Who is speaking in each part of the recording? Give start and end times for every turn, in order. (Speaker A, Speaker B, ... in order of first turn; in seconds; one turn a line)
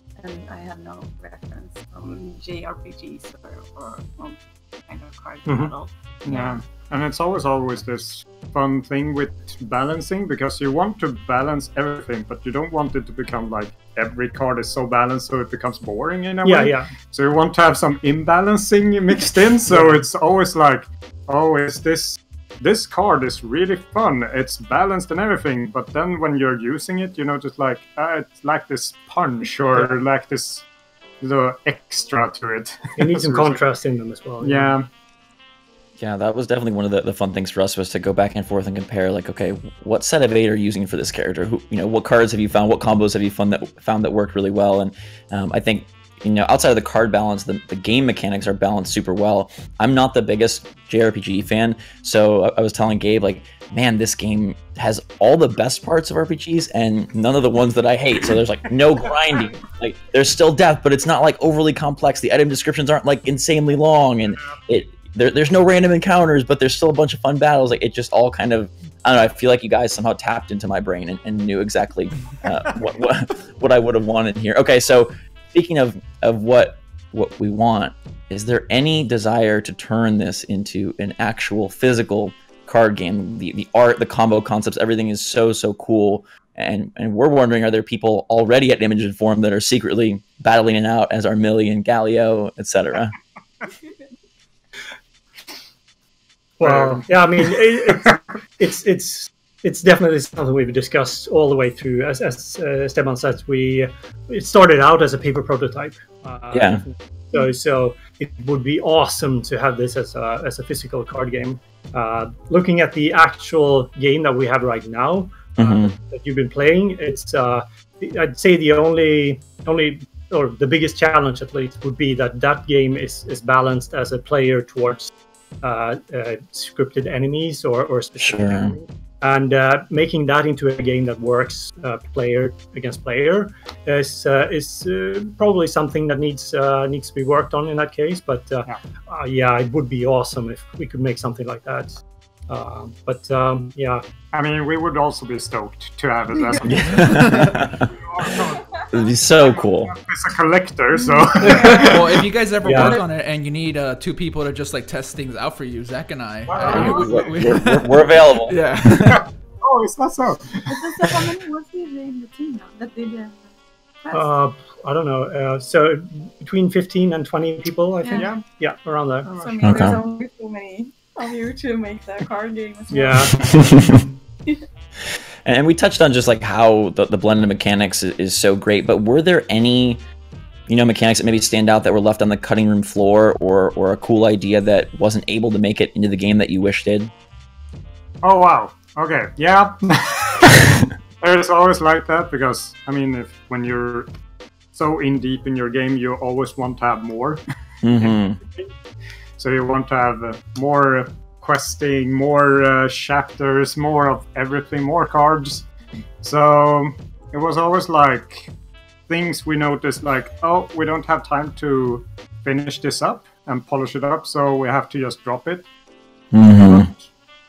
Speaker A: 0.2-6.6
Speaker B: 5.5-5.7
Speaker C: 6.2-30.6
Speaker B: 16.4-16.9
Speaker B: 19.7-20.0
Speaker C: 31.2-33.6
Speaker B: 33.0-34.8
Speaker C: 34.4-34.9
Speaker D: 36.0-93.1
Speaker C: 64.3-64.6
Speaker B: 96.6-144.0
Speaker C: 96.6-97.1
Speaker D: 106.5-106.8
Speaker D: 115.6-116.0
Speaker D: 128.2-128.8
Speaker C: 144.3-152.2
Speaker A: 146.4-147.4
Speaker D: 146.7-147.9
Speaker A: 148.4-148.8
Speaker D: 148.9-149.9
Speaker A: 150.9-152.0
Speaker B: 151.4-151.9
Speaker E: 151.5-159.2
Speaker B: 152.6-153.0
Speaker A: 152.7-153.0
Speaker C: 156.6-157.3
Speaker A: 156.6-157.2
Speaker D: 156.7-158.6
Speaker C: 159.1-161.3
Speaker A: 160.7-163.4
Speaker A: 164.0-164.3
Speaker B: 164.1-169.3
Speaker A: 168.0-168.4
Speaker C: 168.1-168.4
Speaker A: 169.2-174.6
Speaker C: 169.3-169.6
Speaker D: 169.6-170.0
Speaker B: 172.9-173.5
Speaker D: 173.5-174.0
Speaker D: 175.4-180.0
Speaker D: 180.7-187.1
Speaker C: 188.2-194.1
Speaker C: 194.7-197.4
Speaker D: 197.8-198.4
Speaker C: 197.9-198.7
Speaker C: 199.4-205.7
Speaker C: 206.2-208.5
Speaker C: 209.1-215.7
Speaker D: 216.3-216.9
Speaker C: 216.4-217.1